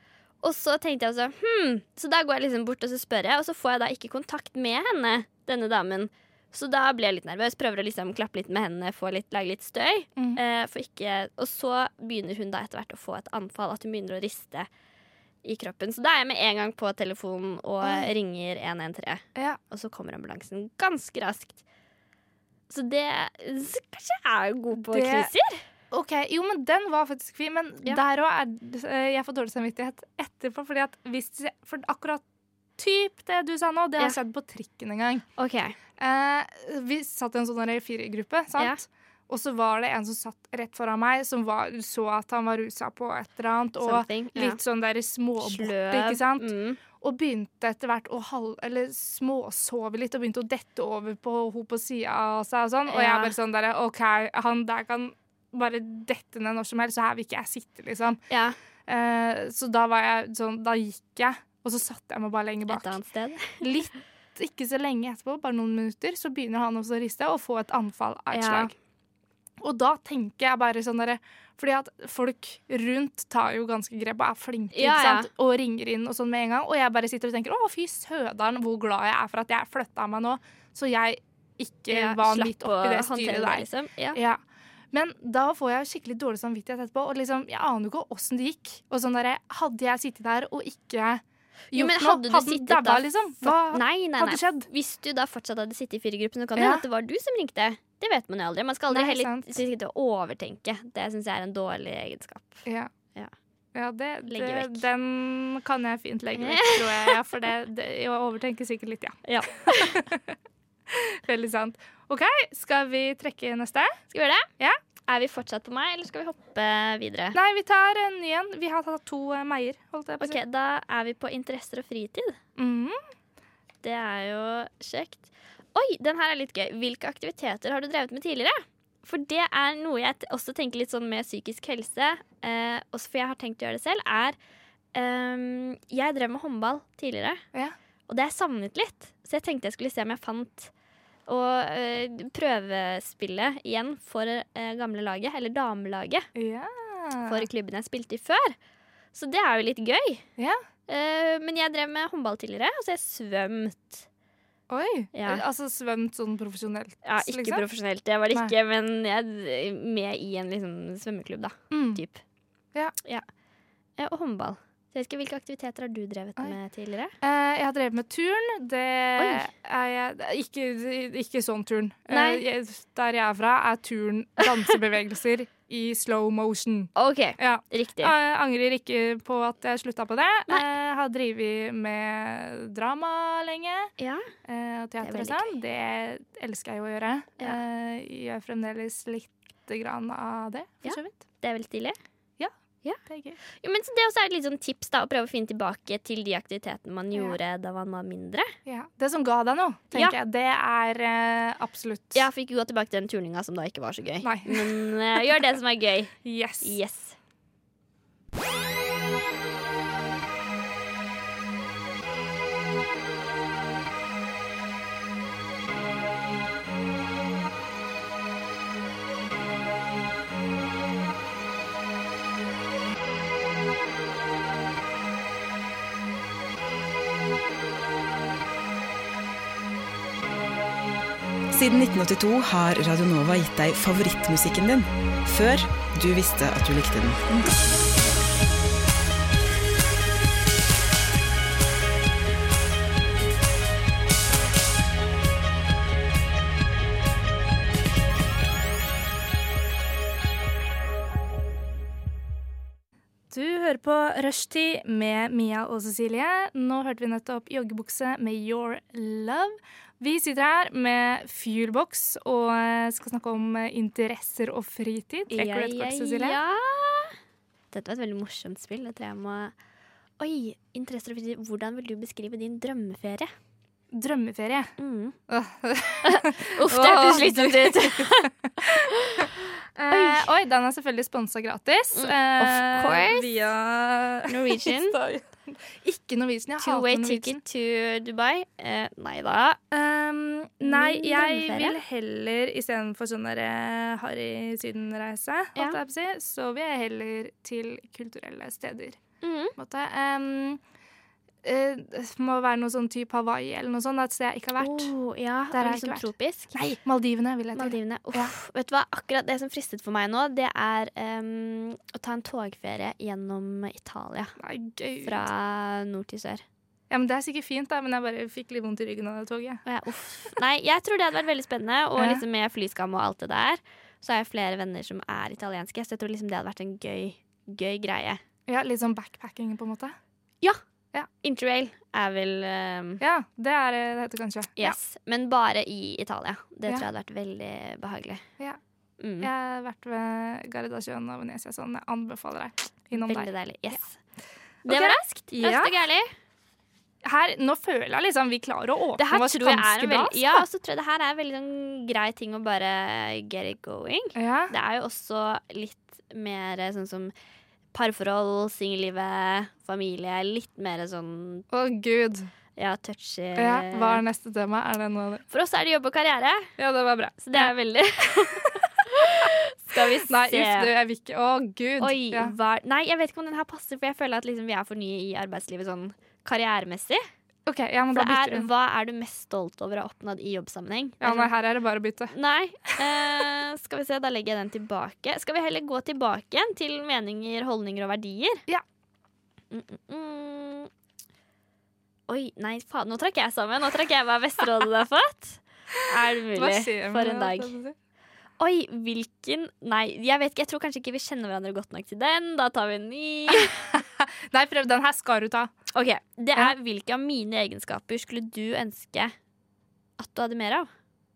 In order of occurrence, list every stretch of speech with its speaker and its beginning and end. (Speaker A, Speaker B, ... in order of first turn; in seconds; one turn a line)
Speaker A: 0.4-14.7
Speaker A: 15.4-21.6
Speaker B: 17.8-18.1
Speaker A: 22.7-25.6
Speaker B: 24.7-25.3
Speaker B: 25.9-32.2
Speaker B: 32.8-35.2
Speaker A: 35.4-35.8
Speaker B: 36.0-58.2
Speaker A: 43.8-44.6
Speaker A: 45.4-46.8
Speaker A: 52.9-53.3
Speaker A: 58.3-58.6
Speaker B: 58.9-62.9
Speaker A: 62.7-63.6
Speaker B: 63.6-68.7
Speaker A: 68.3-68.7
Speaker B: 69.6-84.4
Speaker A: 74.7-75.3
Speaker A: 81.9-84.2
Speaker B: 84.9-94.7
Speaker A: 91.7-102.6
Speaker B: 96.5-96.8
Speaker B: 98.9-99.6
Speaker B: 103.7-110.3
Speaker A: 104.3-104.9
Speaker A: 106.3-107.2
Speaker A: 109.2-110.0
Speaker B: 110.9-114.0
Speaker A: 114.1-114.5
Speaker A: 115.1-117.4
Speaker B: 117.3-120.4
Speaker A: 120.2-122.4
Speaker B: 122.5-123.0
Speaker A: 123.8-134.4
Speaker A: 134.9-137.4
Speaker A: 138.1-140.7
Speaker A: 141.3-146.3
Speaker B: 146.3-147.4
Speaker A: 147.2-148.5
Speaker A: 149.1-150.2
Speaker B: 150.4-150.6
Speaker A: 150.9-154.1
Speaker B: 154.7-157.7
Speaker A: 155.1-155.4
Speaker A: 157.0-162.2
Speaker B: 161.7-162.0
Speaker A: 164.0-167.1
Speaker B: 167.2-183.9
Speaker A: 169.2-169.5
Speaker A: 172.1-172.4
Speaker A: 176.9-178.1
Speaker A: 184.0-184.3
Speaker B: 184.4-191.2
Speaker A: 185.0-185.5
Speaker A: 190.8-192.0
Speaker B: 192.4-193.4
Speaker A: 193.5-198.5
Speaker B: 198.6-202.2
Speaker A: 202.1-207.2
Speaker B: 204.2-205.2
Speaker B: 206.2-206.8
Speaker C: 231.5-237.6
Speaker B: 253.3-266.4
Speaker A: 265.3-267.2
Speaker A: 267.7-269.5
Speaker A: 270.2-273.3
Speaker B: 273.9-274.7
Speaker A: 274.8-275.2
Speaker B: 275.3-279.2
Speaker A: 276.0-279.3
Speaker B: 279.7-287.4
Speaker A: 279.9-280.3
Speaker A: 281.9-283.3
Speaker A: 284.3-285.0
Speaker A: 286.6-289.6
Speaker B: 289.7-299.0
Speaker A: 290.6-291.8
Speaker A: 299.2-299.6
Speaker B: 299.6-300.6
Speaker B: 301.4-304.9
Speaker A: 304.6-306.7
Speaker B: 305.5-308.3
Speaker A: 307.5-314.3
Speaker B: 314.4-315.3
Speaker A: 315.0-316.4
Speaker B: 316.9-319.6
Speaker A: 319.6-328.2
Speaker B: 322.0-322.2
Speaker B: 328.5-330.0
Speaker A: 331.2-333.0
Speaker B: 333.0-334.8
Speaker A: 334.6-338.2
Speaker A: 339.0-339.3
Speaker B: 339.2-343.3
Speaker A: 342.9-344.0
Speaker B: 344.6-345.7
Speaker A: 344.6-346.1
Speaker B: 347.0-350.4
Speaker A: 349.0-357.1
Speaker B: 354.1-354.5
Speaker A: 357.7-361.4
Speaker B: 361.5-362.3
Speaker A: 362.6-364.0
Speaker B: 363.4-365.2
Speaker A: 365.3-366.5
Speaker B: 366.6-367.5
Speaker A: 367.2-370.7
Speaker B: 369.7-372.3
Speaker A: 371.8-377.1
Speaker B: 377.4-378.5
Speaker A: 377.9-381.3
Speaker B: 381.0-382.1
Speaker A: 382.1-388.4
Speaker A: 389.5-390.7
Speaker A: 392.1-397.5
Speaker B: 396.3-397.7
Speaker A: 398.4-403.7
Speaker B: 403.3-405.5
Speaker A: 405.7-409.1
Speaker A: 410.0-410.7